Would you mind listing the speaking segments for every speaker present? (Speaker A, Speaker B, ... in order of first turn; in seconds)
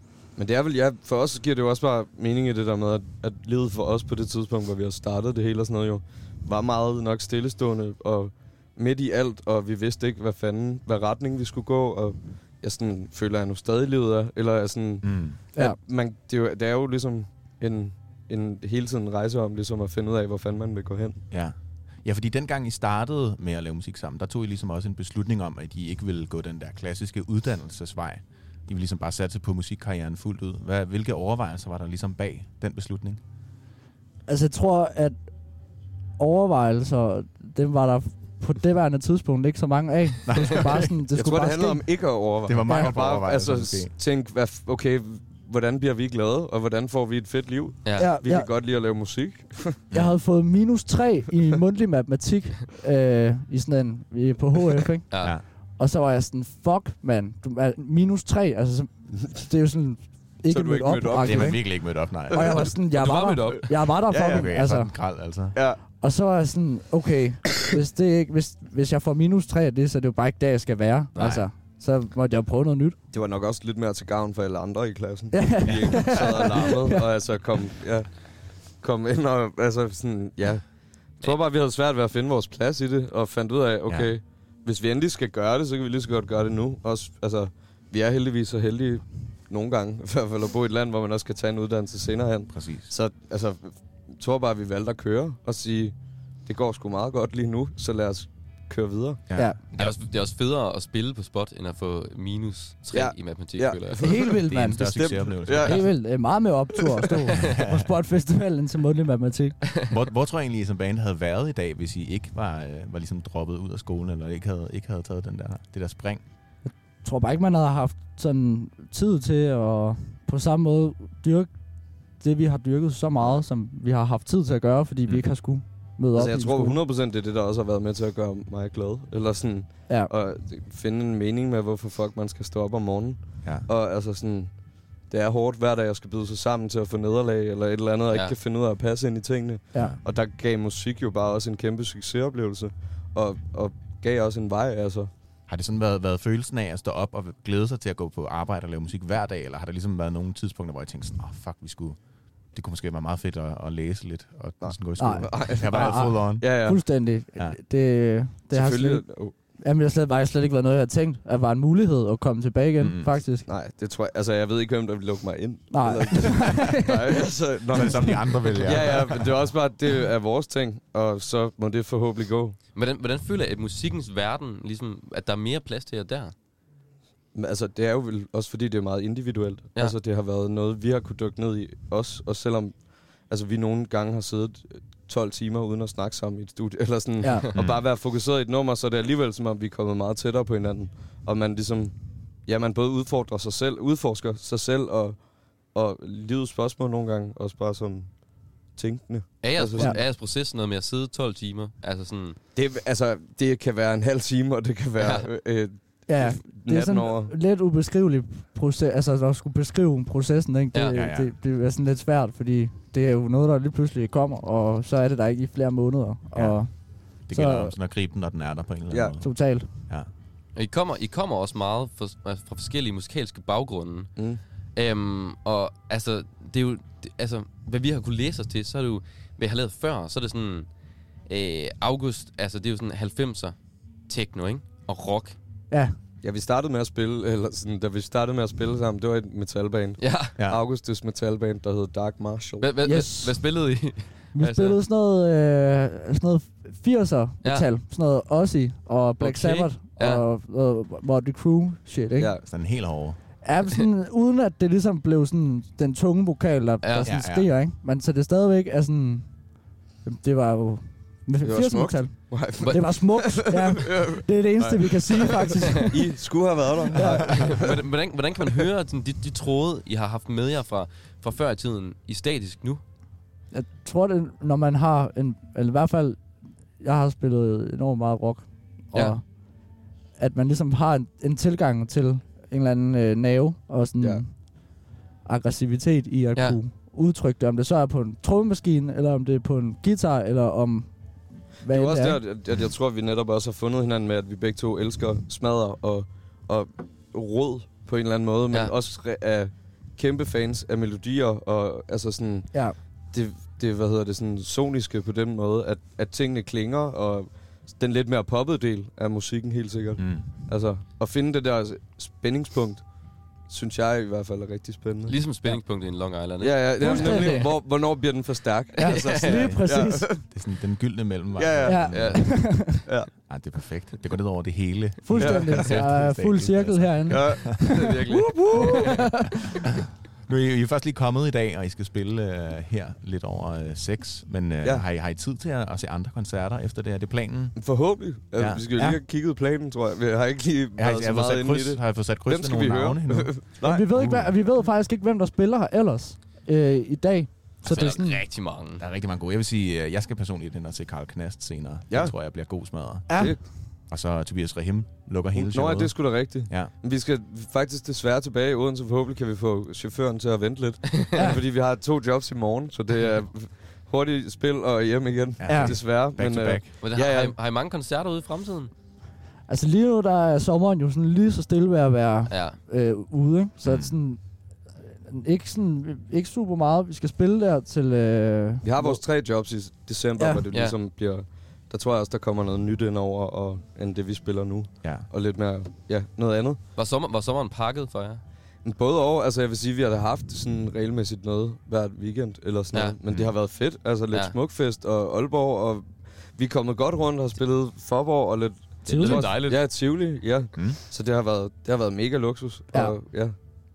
Speaker A: 0.3-21.2, 41.1-49.8, 60.5-62.7, 64.1-64.5, 65.5-65.8, 73.1-99.2, 102.9-106.0, 126.1-145.1, 154.6-156.8, 158.5-159.3, 163.4-172.6, 177.3-199.9, 202.5-207.3, 218.9-219.2, 236.2-242.7, 252.2-252.4, 261.4-267.7, 291.7-312.9, 313.4-315.2, 316.4-320.2, 321.3-323.1, 325.2-325.8, 327.1-329.1, 337.6-343.9, 351.9-352.6, 353.1-353.4, 355.3-367.3, 378.6-386.6, 388.6-403.3
Speaker B: 15.0-15.4, 21.3-33.2, 40.3-40.9, 42.4-43.9, 49.9-50.2, 61.2-62.7, 64.1-65.6, 71.1-71.5, 92.5-92.9, 99.3-100.0, 104.5-106.2, 107.4-107.9, 109.9-116.2, 125.1-125.3, 145.5-156.7, 162.8-163.2, 167.7-169.4, 187.5-187.9, 210.9-211.4, 216.3-220.1, 252.4-253.2, 257.0-257.5, 310.0-310.3, 319.3-327.5, 330.2-337.7, 338.3-339.0, 340.8-344.4, 348.8-356.7, 365.4-366.7, 373.6-373.9, 384.8-385.1, 400.5-400.8
Speaker C: 34.3-35.2, 36.2-42.9, 48.0-48.5, 49.9-65.0, 65.9-73.0, 75.3-77.0, 104.0-109.6, 116.6-121.5, 122.1-126.8, 154.9-163.4, 165.7-166.9, 187.2-187.5, 199.8-200.0, 206.1-217.8, 219.2-219.7, 242.8-252.5, 253.4-259.3, 260.0-267.4, 273.5-276.3, 276.8-290.9, 291.4-292.2, 316.8-317.6, 318.8-320.2, 321.6-322.7, 325.0-329.3, 343.6-348.2, 353.1-353.5, 365.4-365.7, 369.4-374.2, 374.8-379.0, 380.2-380.4, 398.8-399.2
Speaker D: 47.8-48.1, 55.1-55.3, 62.9-63.9, 99.7-104.2, 172.7-176.3, 199.4-202.4, 205.0-205.2, 220.5-230.7, 231.2-235.4, 240.0-240.3, 242.6-244.8, 249.2-250.2, 256.8-257.1, 267.3-272.8, 315.1-317.4, 318.8-319.4, 321.9-322.3, 327.7-329.0, 347.6-348.8, 366.8-368.7, 372.3-372.6, 380.5-380.8, 386.7-388.2, 394.1-394.4, 398.9-399.6